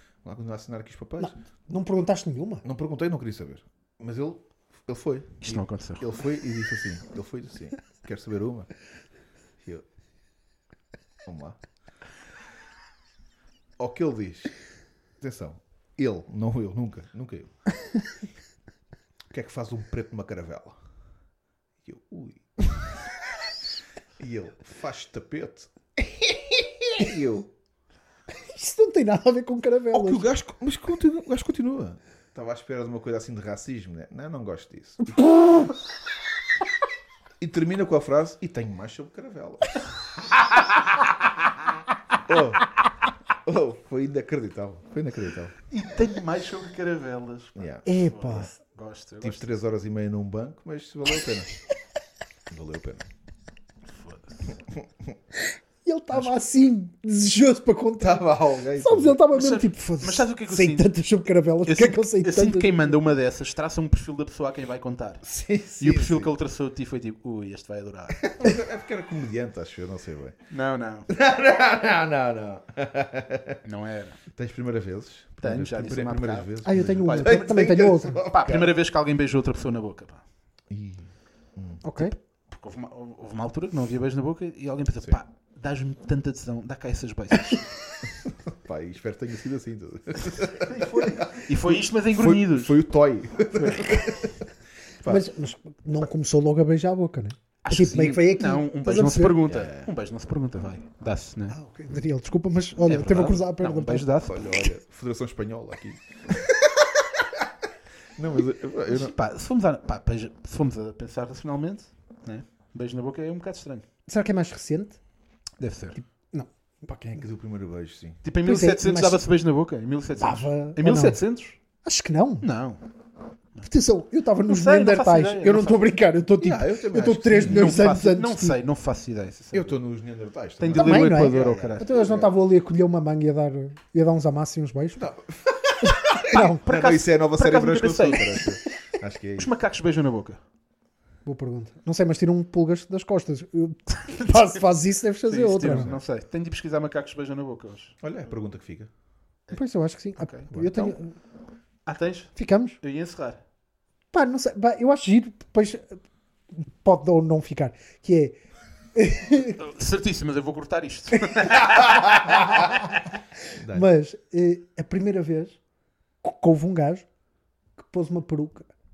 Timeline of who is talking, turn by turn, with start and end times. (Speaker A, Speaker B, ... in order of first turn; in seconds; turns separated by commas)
Speaker A: 0.2-1.3, Speaker B: 1.2-2.6, Speaker A: 2.6-8.7, Speaker C: 5.4-6.0, Speaker A: 11.2-11.6, Speaker A: 13.8-14.5, Speaker A: 15.2-17.5, Speaker A: 19.3-20.8, Speaker A: 21.8-22.8, Speaker A: 24.2-27.5, Speaker B: 28.3-30.3, Speaker A: 29.9-35.3, Speaker B: 35.4-35.6, Speaker A: 37.4-39.8, Speaker A: 42.3-42.7, Speaker A: 43.4-45.6, Speaker C: 45.7-49.5, Speaker A: 47.5-47.9, Speaker B: 47.9-48.5, Speaker A: 49.2-51.5, Speaker A: 52.5-53.0, Speaker C: 53.9-54.4, Speaker A: 54.7-55.1, Speaker B: 55.4-63.0, Speaker A: 58.0-59.2, Speaker C: 59.3-60.9, Speaker C: 61.7-65.2, Speaker A: 65.2-66.3, Speaker C: 65.8-68.4, Speaker A: 68.2-70.4, Speaker C: 70.5-71.1, Speaker A: 71.1-73.6, Speaker C: 73.7-74.2, Speaker A: 74.3-78.8, Speaker C: 75.4-77.7, Speaker B: 76.6-78.2, Speaker C: 78.3-80.2, Speaker A: 80.7-81.8, Speaker B: 81.8-82.2, Speaker C: 82.0-87.7, Speaker A: 88.3-94.4, Speaker C: 90.2-92.8, Speaker C: 93.6-94.0, Speaker B: 95.0-99.4, Speaker C: 97.6-101.6, Speaker A: 99.5-99.9, Speaker B: 101.6-104.1, Speaker C: 102.8-104.7, Speaker A: 104.3-106.4, Speaker A: 108.2-109.1, Speaker C: 108.9-113.8, Speaker B: 114.1-115.0, Speaker C: 115.6-116.0, Speaker B: 116.0-117.3, Speaker A: 117.2-118.2, Speaker C: 118.2-121.6, Speaker B: 118.4-119.2, Speaker B: 120.2-121.2, Speaker B: 121.8-122.5, Speaker C: 122.4-122.8, Speaker B: 123.6-128.6, Speaker C: 124.5-125.9, Speaker A: 126.4-127.8, Speaker C: 127.4-129.8, Speaker A: 129.5-132.3, Speaker C: 130.6-131.9, Speaker B: 130.8-135.0, Speaker A: 135.0-139.5, Speaker B: 136.2-136.6, Speaker C: 136.3-138.5, Speaker C: 139.4-140.4, Speaker B: 141.2-146.0, Speaker C: 145.2-148.0, Speaker A: 145.7-146.0, Speaker A: 148.0-148.9, Speaker B: 149.5-151.1, Speaker C: 150.2-151.0, Speaker C: 151.9-153.4, Speaker B: 152.4-152.8, Speaker B: 154.1-156.0, Speaker B: 156.5-158.4, Speaker B: 158.9-159.6, Speaker C: 159.6-162.6, Speaker A: 162.0-162.6, Speaker A: 163.6-163.9, Speaker B: 163.7-165.6, Speaker B: 166.2-167.1, Speaker B: 167.8-168.7